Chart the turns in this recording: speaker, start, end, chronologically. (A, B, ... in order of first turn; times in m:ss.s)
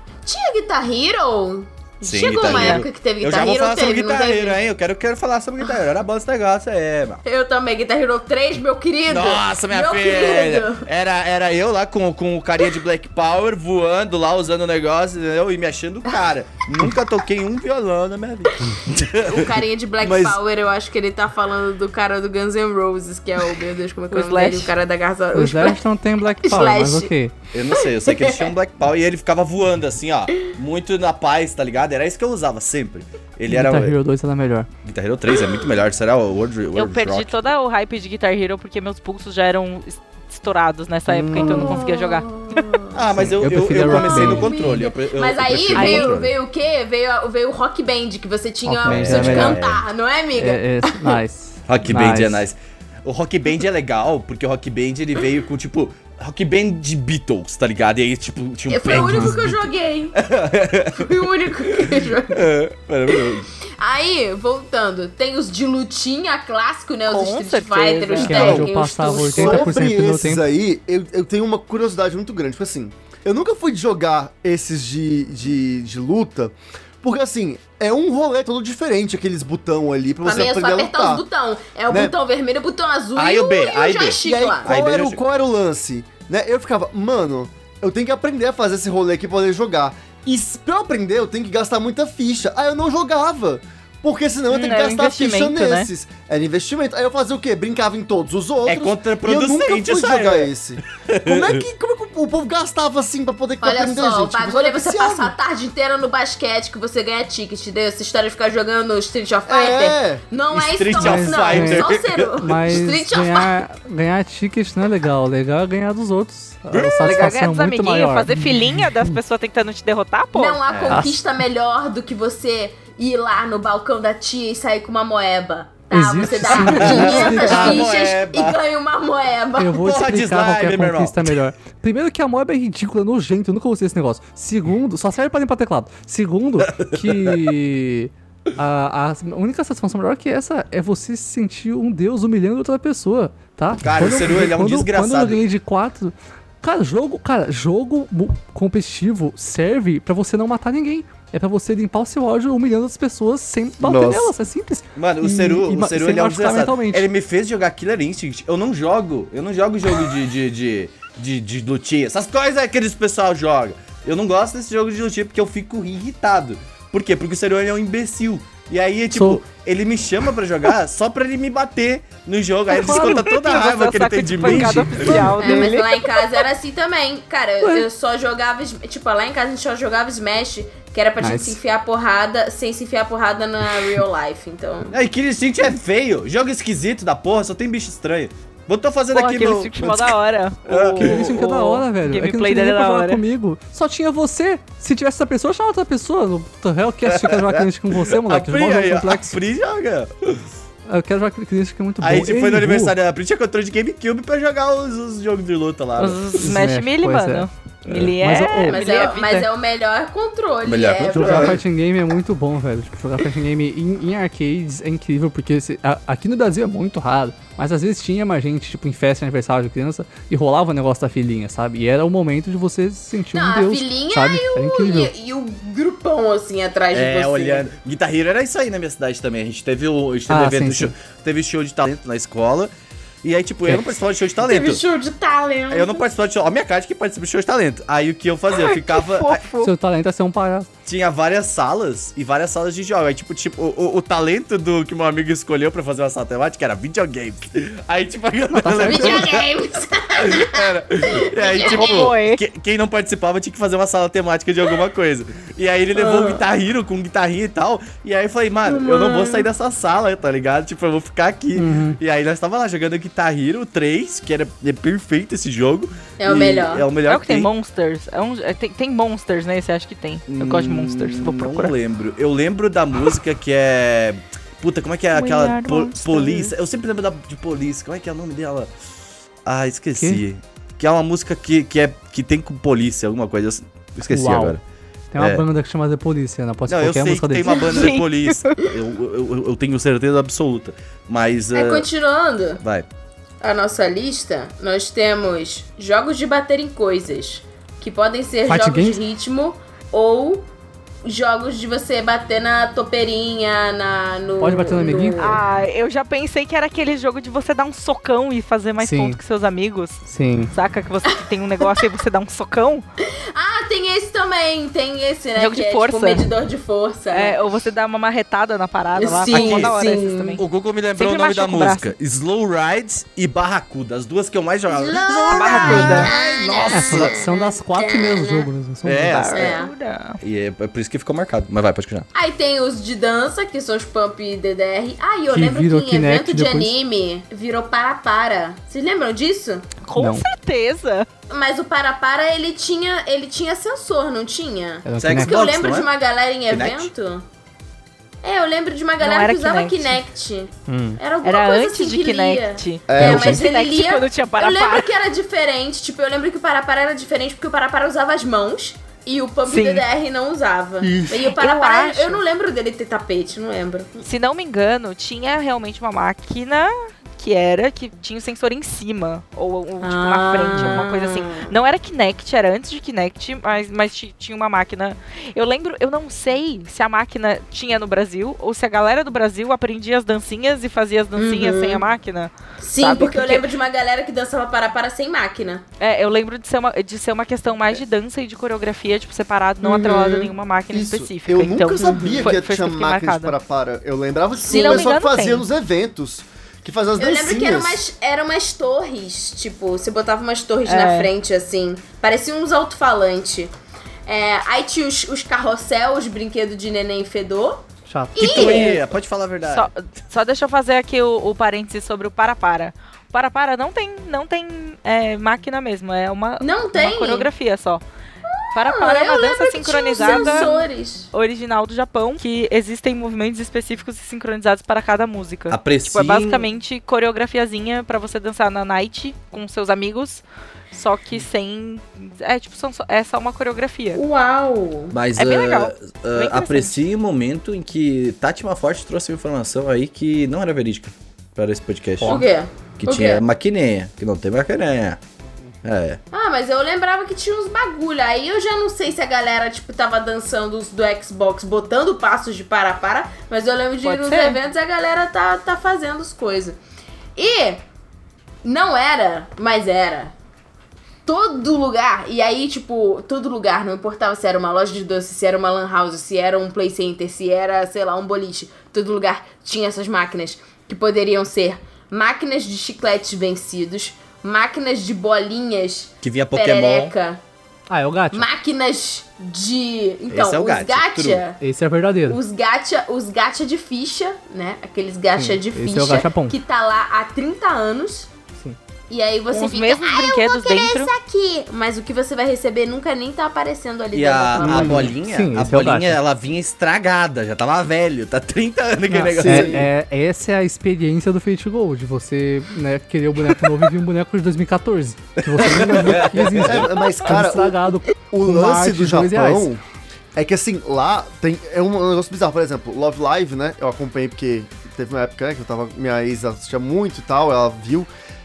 0:00.3-0:04.6 A
0:02.0-0:07.2 B
0:02.5-0:02.8 C
0:07.2-0:10.9 A
0:09.1-0:19.5 B
0:19.2-0:25.8 A
0:20.0-0:20.4 B
0:24.1-0:24.7 C
0:25.3-0:27.3 D
0:26.4-0:27.1 A
0:27.5-0:34.0 B
0:28.0-0:28.5 A
0:33.5-0:34.7 D
0:34.8-0:37.4 B
0:36.8-0:42.8 C
0:41.1-0:41.8 D
0:41.4-0:51.2 A
0:42.9-0:46.3 B
0:43.2-0:44.7 D
0:45.7-0:46.2 C
0:48.7-0:49.6 D
0:48.8-0:49.8 B
0:50.4-0:52.4 D
0:51.7-0:59.6 B
0:58.7-1:00.2 A
0:58.9-0:59.4 D
1:00.2-1:03.5 B
1:00.9-1:02.5 A
1:03.2-1:09.8 A
1:07.1-1:08.6 C
1:08.2-1:10.5 D
1:08.5-1:21.2 E
1:20.2-1:24.7 A
1:21.9-1:22.2 E
1:23.2-1:25.2 B
1:24.2-1:45.3 E
1:34.5-1:35.9 C
1:38.7-1:41.6 B
1:43.6-1:53.6 A
1:49.5-1:50.2 E
1:50.5-1:52.6 B
1:51.0-1:51.9 D
1:52.4-1:59.1 D
1:56.7-1:57.2 B
1:57.0-2:00.6 C
2:00.4-2:09.8 A
2:00.7-2:01.1 B
2:00.9-2:01.2 D
2:05.9-2:07.8 D
2:06.5-2:08.6 B
2:09.6-2:37.1 D
2:09.8-2:11.4 B
2:16.6-2:17.4 B
2:23.8-2:25.4 B
2:33.8-2:34.3 E
2:35.0-2:55.3 B
2:49.1-2:49.4 D
2:52.8-2:56.4 C
2:52.8-2:53.3 D
2:54.4-2:55.4 D
2:55.4-3:05.0 A
2:57.6-2:57.9 D
3:01.2-3:01.6 D
3:04.9-3:10.1 B
3:09.1-3:13.2 C
3:10.7-3:11.4 B
3:11.0-3:19.4 D
3:17.1-3:20.4 B
3:20.9-3:22.9 D
3:22.0-3:26.2 B
3:26.0-3:29.5 C
3:26.4-3:28.9 D
3:28.7-3:31.6 A
3:30.6-3:31.6 B
3:31.1-3:45.1 D
3:43.3-3:47.7 A
3:46.9-3:52.7 B
3:50.3-3:50.9 D
3:53.2-3:54.8 B
3:53.6-3:54.0 D
3:54.4-3:56.1 A
3:55.7-3:59.4 B
3:58.6-3:59.7 C
3:59.6-4:00.7 D
4:00.9-4:09.5 B
4:08.5-4:09.3 D
4:08.8-4:12.1 A
4:10.2-4:27.5 B
4:11.5-4:12.4 C
4:16.0-4:16.4 A
4:18.7-4:19.5 A
4:21.6-4:22.0 D
4:26.2-4:26.9 A
4:27.1-4:31.7 C
4:30.3-4:38.7 B
4:35.1-4:36.5 C
4:39.4-4:44.6 B
4:40.0-4:40.2 D
4:44.1-4:44.6 D
4:45.1-4:47.7 D
4:45.2-4:45.4 B
4:46.7-4:51.9 B
4:47.6-4:48.6 C
4:51.5-4:52.6 A
4:53.4-5:00.5 A
4:58.4-4:59.0 D
5:01.0-5:05.4 A
5:04.4-5:05.2 D
5:05.2-5:12.8 C
5:08.8-5:09.2 D
5:10.1-5:10.5 D
5:13.3-5:17.4 A
5:15.4-5:16.3 C
5:17.1-5:20.4 C
5:19.0-5:20.4 A
5:19.3-5:19.8 B
5:20.4-5:27.2 B
5:20.9-5:21.9 C
5:24.7-5:28.5 A
5:25.3-5:26.1 C
5:25.7-5:26.1 D
5:26.7-5:29.4 D
5:28.8-5:29.6 B
5:29.1-5:30.2 C
5:29.3-5:29.7 A
5:30.2-5:32.1 B
5:32.1-5:39.7 A
5:35.3-5:36.7 D
5:39.8-5:41.1 C
5:40.0-5:40.3 D
5:41.3-5:47.2 A
5:44.8-5:45.5 D
5:45.0-5:45.9 B
5:46.5-5:46.9 B
5:48.2-6:03.9 A
5:49.0-5:50.0 C
5:50.7-5:51.0 D
5:51.2-5:54.9 C
5:52.9-5:53.4 E
5:59.5-5:59.8 C
6:00.8-6:01.2 E
6:01.3-6:02.2 C
6:04.0-6:23.5 C
6:09.8-6:11.6 A
6:21.2-6:21.8 A
6:22.6-6:25.6 A
6:25.8-6:33.4 C
6:29.6-6:30.3 A
6:30.7-6:37.8 E
6:34.5-6:34.9 A
6:34.5-6:35.5 C
6:37.0-6:43.5 A
6:40.7-6:41.1 C
6:44.1-6:47.6 A
6:47.9-6:48.3 D
6:48.2-6:48.9 A
6:48.2-6:49.7 B
6:49.4-6:57.8 C
6:56.4-6:57.3 A
6:58.3-7:01.1 A
6:58.5-7:14.0 C
7:05.5-7:06.5 B
7:14.0-7:15.0 A
7:14.9-7:22.2 B
7:15.2-7:16.8 C
7:22.0-7:22.2 D
7:22.0-7:23.2 A
7:22.8-7:25.0 B
7:25.6-7:26.0 B
7:26.1-7:36.6 A
7:33.8-7:34.4 C
7:37.2-7:37.6 A
7:38.4-7:40.1 A
7:41.1-7:57.2 A
7:56.0-7:56.9 B
7:57.7-7:58.3 D
7:58.1-8:01.4 A
8:00.1-8:01.2 B
8:01.4-8:02.2 D
8:02.1-8:08.1 A
8:05.2-8:06.4 D
8:08.9-8:14.9 A
8:09.3-8:10.9 C
8:13.9-8:19.7 B
8:14.4-8:16.0 D
8:18.9-8:29.5 D
8:19.2-8:19.7 E
8:25.2-8:26.8 B
8:26.3-8:29.6 E
8:30.2-8:37.9 E